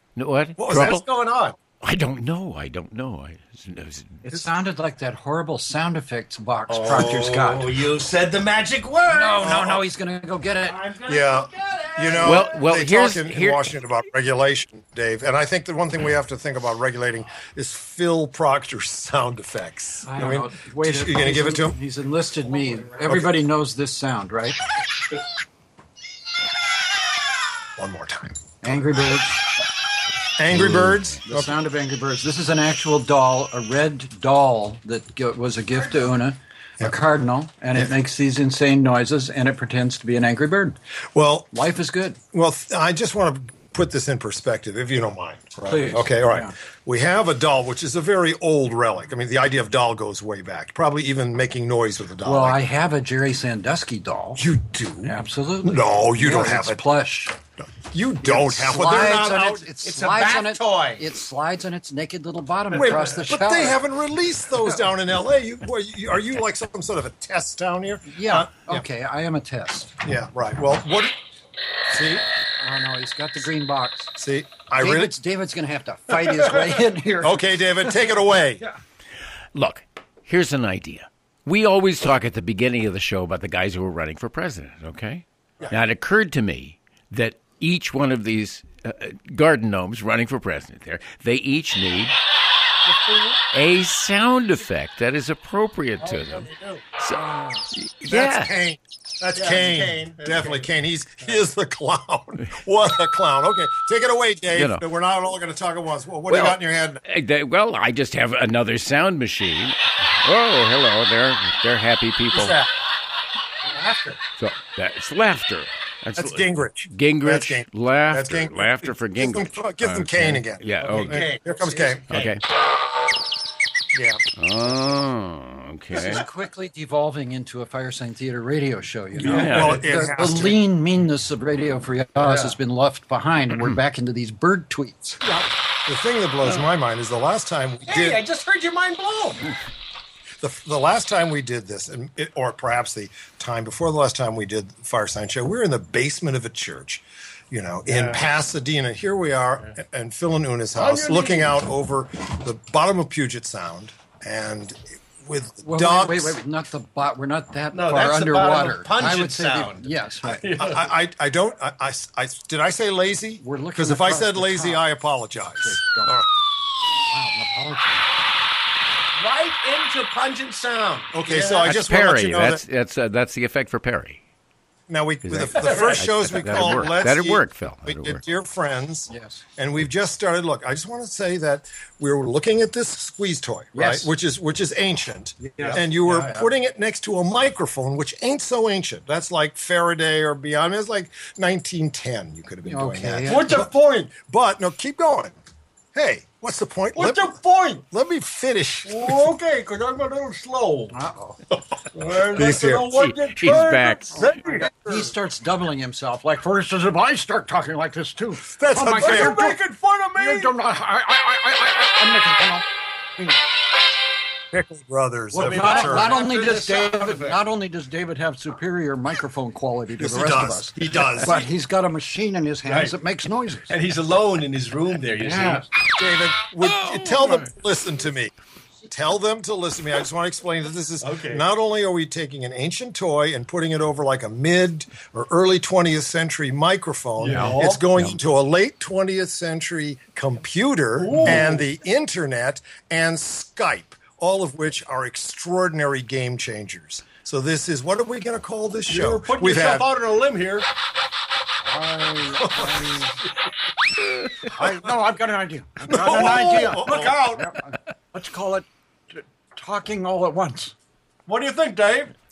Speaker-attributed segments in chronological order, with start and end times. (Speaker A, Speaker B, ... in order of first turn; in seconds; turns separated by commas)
Speaker A: 0.1-1.0, Speaker B: 0.6-1.0, Speaker C: 0.7-1.6, Speaker A: 1.8-4.2, Speaker D: 4.2-7.8, Speaker C: 6.7-9.5, Speaker B: 6.9-7.2, Speaker D: 9.1-10.8, Speaker B: 9.4-9.8, Speaker C: 10.7-12.5, Speaker B: 11.1-21.8, Speaker A: 12.2-13.7, Speaker D: 20.0-24.6, Speaker B: 23.0-23.3, Speaker B: 27.8-28.4, Speaker D: 28.6-29.4, Speaker B: 30.4-31.5, Speaker D: 30.6-40.8, Speaker B: 41.1-41.5, Speaker D: 41.5-42.2, Speaker B: 42.3-52.6, Speaker D: 45.6-46.5, Speaker D: 52.2-54.5, Speaker B: 54.4-56.8, Speaker D: 55.0-57.4, Speaker B: 57.6-59.6, Speaker D: 58.2-63.8, Speaker C: 59.8-61.0, Speaker B: 62.7-68.8, Speaker C: 62.7-63.1, Speaker D: 68.1-69.9, Speaker B: 70.0-71.1, Speaker B: 71.9-72.2, Speaker D: 72.6-74.1, Speaker B: 74.2-75.1, Speaker D: 74.8-77.9, Speaker B: 77.2-78.6, Speaker A: 79.5-92.2, Speaker C: 92.8-93.4, Speaker A: 93.5-98.5, Speaker C: 96.0-96.8, Speaker B: 98.1-107.0, Speaker C: 99.3-100.6, Speaker A: 104.5-104.8, Speaker A: 106.3-112.6, Speaker B: 112.3-112.7, Speaker C: 113.7-114.2, Speaker A: 114.4-121.3, Speaker B: 116.1-122.3, Speaker C: 120.8-122.3, Speaker A: 122.1-122.4, Speaker B: 123.9-124.2, Speaker A: 124.4-126.2, Speaker D: 125.9-135.2, Speaker A: 129.2-129.8, Speaker B: 129.3-130.6, Speaker C: 132.2-132.5, Speaker B: 135.2-138.2, Speaker C: 137.9-139.5, Speaker B: 140.4-156.4, Speaker C: 147.9-148.2, Speaker C: 150.7-151.6, Speaker D: 155.6-160.5, Speaker C: 157.7-160.9, Speaker B: 160.5-166.2, Speaker D: 163.4-164.8, Speaker D: 165.6-166.2, Speaker D: 167.1-168.1, Speaker C: 169.1-171.7, Speaker B: 171.1-172.6, Speaker A: 171.6-174.2, Speaker B: 174.9-195.3, Speaker A: 175.2-178.2, Speaker C: 175.6-175.8, Speaker D: 179.1-179.4, Speaker D: 183.7-184.1, Speaker D: 185.4-186.4, Speaker D: 192.7-193.6, Speaker C: 193.2-194.1, Speaker B: 195.9-197.4, Speaker C: 196.9-197.8, Speaker B: 197.9-199.2, Speaker C: 198.8-201.0, Speaker D: 200.9-201.4, Speaker C: 201.5-205.0, Speaker B: 202.2-203.1, Speaker A: 202.9-204.4, Speaker D: 204.2-209.6, Speaker B: 208.4-210.5, Speaker C: 209.0-210.3, Speaker D: 210.1-212.7, Speaker B: 214.5-216.3, Speaker D: 215.3-223.7, Speaker C: 215.3-217.4, Speaker B: 220.0-221.5, Speaker C: 222.6-222.9, Speaker C: 223.7-225.7, Speaker D: 225.2-225.7, Speaker B: 226.0-228.3, Speaker B: 228.9-249.9, Speaker C: 231.0-231.4, Speaker C: 237.2-237.8, Speaker A: 237.3-238.2, Speaker C: 241.0-241.6, Speaker C: 248.9-250.7, Speaker D: 251.6-253.2, Speaker B: 252.4-253.1, Speaker D: 254.4-260.7, Speaker B: 255.8-257.5, Speaker C: 256.7-257.1, Speaker C: 261.2-262.1